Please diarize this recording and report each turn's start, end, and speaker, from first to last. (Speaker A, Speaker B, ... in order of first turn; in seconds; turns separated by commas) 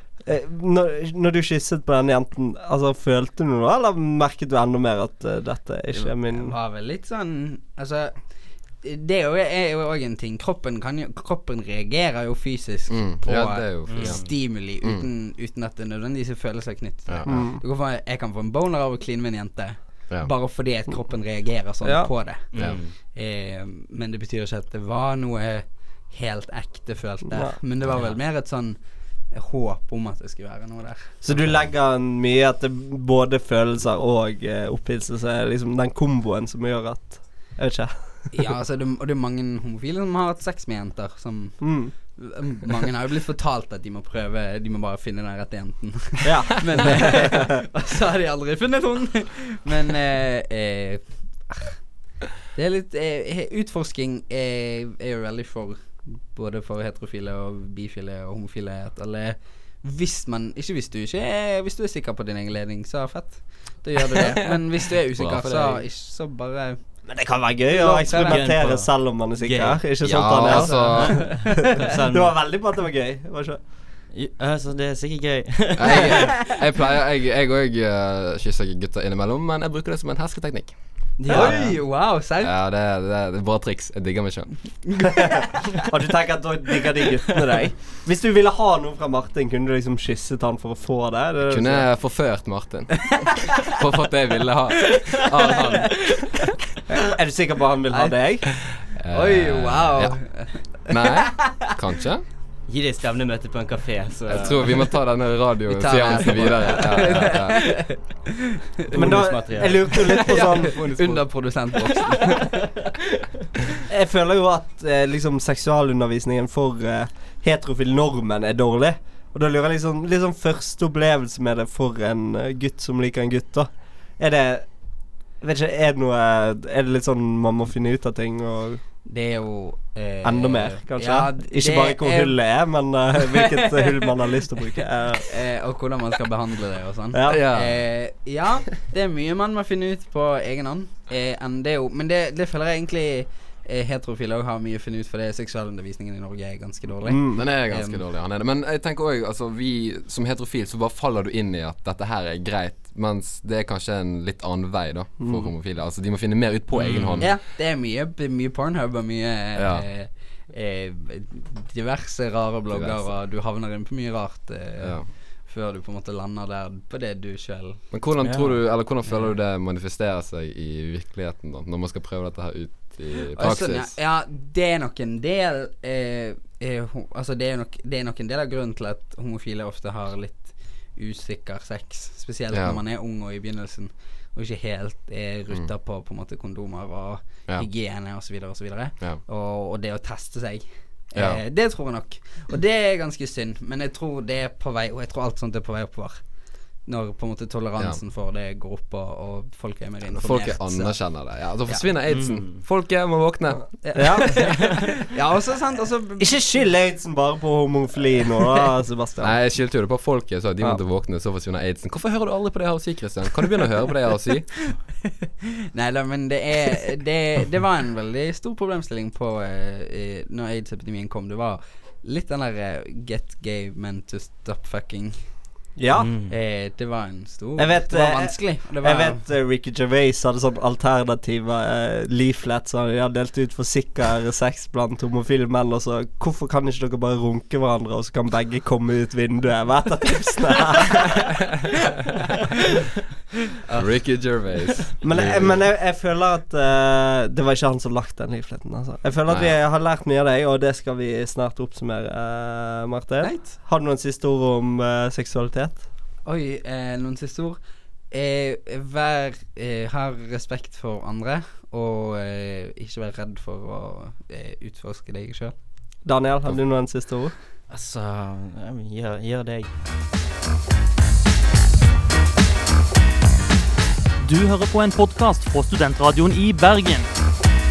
Speaker A: 0.2-6.5, Speaker B: 5.9-8.2, Speaker B: 8.8-28.8, Speaker C: 12.9-15.1, Speaker D: 13.9-14.3, Speaker C: 17.1-17.4, Speaker A: 17.2-17.6, Speaker A: 21.8-22.1, Speaker D: 22.5-22.9, Speaker C: 22.5-22.8, Speaker D: 27.9-28.1, Speaker B: 29.3-31.1, Speaker A: 31.2-37.9, Speaker B: 38.3-51.8, Speaker A: 41.6-41.9, Speaker A: 46.2-47.5, Speaker B: 52.5-66.8, Speaker C: 65.1-65.8, Speaker A: 67.1-73.6, Speaker B: 67.7-68.5, Speaker D: 68.1-72.3, Speaker C: 70.0-71.4, Speaker B: 70.5-71.7, Speaker D: 74.1-76.3, Speaker C: 75.8-80.8, Speaker D: 81.2-81.8, Speaker B: 81.3-82.5, Speaker A: 81.3-81.6, Speaker C: 82.4-84.8, Speaker B: 85.0-85.4, Speaker A: 85.3-91.8, Speaker C: 91.5-96.2, Speaker B: 95.4-95.7, Speaker A: 96.9-98.5, Speaker B: 97.9-98.2, Speaker C: 98.7-100.2, Speaker B: 99.1-101.0, Speaker C: 100.8-102.2, Speaker D: 102.7-104.8, Speaker C: 104.3-107.8, Speaker B: 105.7-108.0, Speaker D: 107.0-107.2, Speaker B: 108.8-109.2, Speaker D: 108.9-110.0, Speaker A: 108.9-110.8, Speaker C: 110.0-111.5, Speaker B: 110.2-112.6, Speaker A: 113.9-124.7, Speaker A: 125.4-128.8, Speaker B: 129.0-132.4, Speaker A: 130.2-135.3, Speaker B: 133.3-133.8, Speaker B: 135.3-148.0, Speaker A: 137.1-137.4, Speaker C: 137.3-137.8, Speaker A: 147.0-147.4, Speaker C: 147.3-157.3, Speaker A: 155.2-155.5, Speaker D: 156.7-157.3, Speaker B: 157.2-167.8, Speaker C: 159.6-159.8, Speaker C: 162.7-163.1, Speaker C: 164.8-165.1, Speaker C: 167.9-173.9, Speaker D: 168.2-168.8, Speaker B: 173.3-196.2, Speaker C: 182.5-182.8, Speaker C: 191.2-191.4, Speaker B: 196.8-201.8, Speaker C: 200.1-204.3, Speaker D: 202.1-202.6, Speaker B: 203.8-206.3, Speaker A: 203.9-204.6, Speaker A: 206.2-209.3, Speaker C: 209.2-214.7, Speaker B: 215.7-225.2, Speaker A: 225.8-226.1, Speaker D: 225.9-226.3, Speaker B: 226.3-229.2, Speaker A: 227.6-241.6, Speaker C: 243.7-245.6, Speaker A: 245.0-255.8, Speaker C: 249.3-249.5, Speaker B: 256.2-257.6, Speaker B: 258.1-265.5, Speaker A: 266.0-267.3, Speaker D: 267.7-269.7, Speaker E: 274.2-277.1